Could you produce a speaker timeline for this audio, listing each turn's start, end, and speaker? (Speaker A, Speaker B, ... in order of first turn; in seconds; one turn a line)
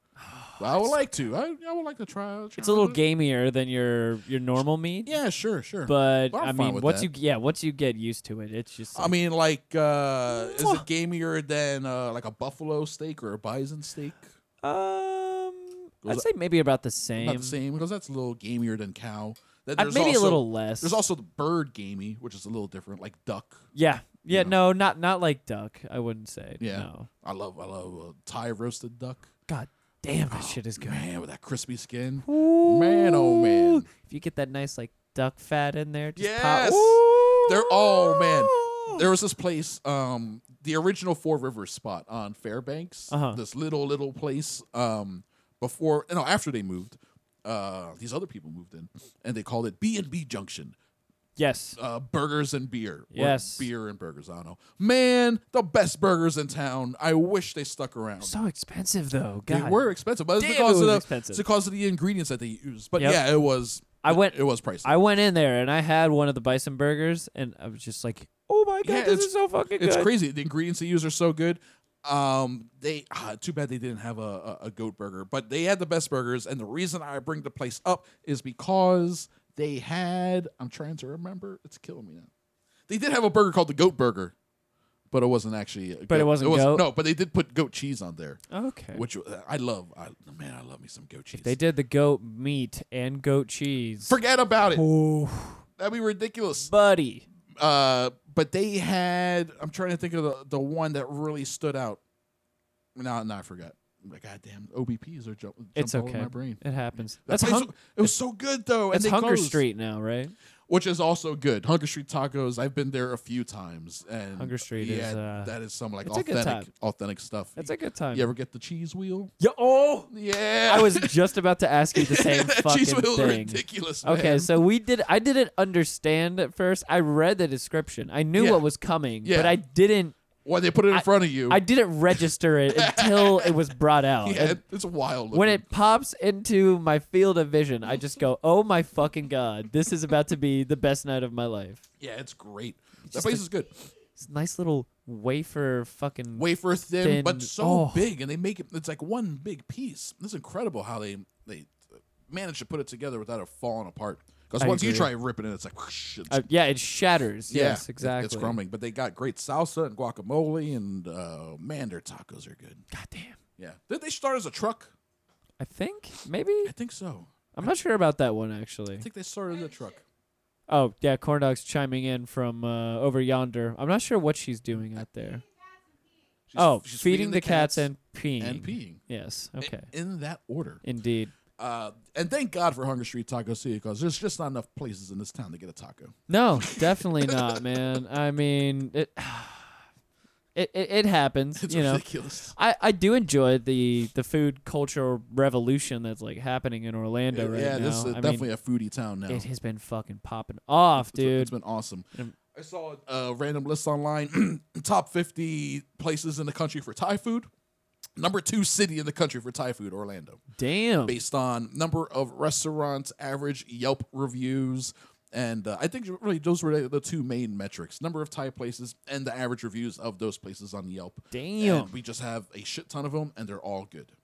Speaker A: 0.2-0.9
Speaker B: 0.6-3.0
Speaker A: 2.6-5.1
Speaker B: 5.0-7.1
Speaker A: 5.8-9.1
Speaker B: 8.9-14.2
Speaker A: 10.3-10.8
Speaker A: 14.6-17.6
Speaker B: 17.2-23.7
Speaker A: 19.8-21.0
Speaker A: 23.7-27.1
Speaker B: 24.3-24.6
Speaker B: 26.6-29.3
Speaker A: 29.5-31.0
Speaker B: 30.3-33.9
Speaker A: 32.2-39.0
Speaker B: 36.1-50.7
Speaker A: 43.1-43.4
Speaker A: 51.4-51.8
Speaker B: 51.8-58.4
Speaker A: 53.1-53.7
Speaker A: 58.2-59.8
Speaker B: 59.5-64.9
Speaker A: 60.4-61.4
Speaker A: 63.0-63.2
Speaker A: 64.0-70.1
Speaker B: 68.8-82.3
Speaker B: 82.9-84.3
Speaker B: 85.1-91.5
Speaker A: 86.1-86.9
Speaker A: 88.5-89.0
Speaker A: 91.3-94.2
Speaker B: 94.1-94.8
Speaker A: 94.7-95.6
Speaker B: 95.8-96.7
Speaker A: 96.7-97.2
Speaker B: 97.6-102.0
Speaker B: 103.0-106.6
Speaker A: 105.8-108.1
Speaker B: 107.2-109.6
Speaker A: 108.9-110.3
Speaker B: 110.7-119.3
Speaker A: 114.4-115.5
Speaker A: 116.0-116.7
Speaker A: 117.6-118.3
Speaker A: 119.4-120.1
Speaker B: 120.1-121.1
Speaker A: 120.7-130.2
Speaker B: 122.0-124.5
Speaker B: 128.3-128.6
Speaker B: 129.2-129.6
Speaker B: 130.4-131.6
Speaker A: 130.9-134.6
Speaker B: 132.7-133.5
Speaker B: 134.2-135.6
Speaker A: 135.3-141.8
Speaker B: 142.0-143.9
Speaker A: 143.1-143.4
Speaker A: 144.2-146.4
Speaker B: 146.3-156.4
Speaker A: 147.0-148.1
Speaker A: 154.6-155.1
Speaker A: 156.3-158.6
Speaker B: 157.5-162.8
Speaker A: 162.9-163.4
Speaker B: 163.6-164.9
Speaker A: 165.6-166.7
Speaker B: 166.6-167.7
Speaker A: 167.6-169.1
Speaker B: 169.0-170.0
Speaker A: 170.7-175.4
Speaker B: 176.5-179.1
Speaker A: 176.5-179.9
Speaker B: 179.6-180.8
Speaker A: 180.8-181.3
Speaker B: 181.6-187.3
Speaker A: 186.3-189.8
Speaker A: 190.5-192.0
Speaker B: 191.6-192.5
Speaker A: 192.5-198.5
Speaker B: 197.3-199.5
Speaker A: 199.3-201.5
Speaker B: 201.0-207.5
Speaker B: 208.2-210.4
Speaker A: 210.6-211.2
Speaker B: 211.1-224.1
Speaker A: 221.3-221.9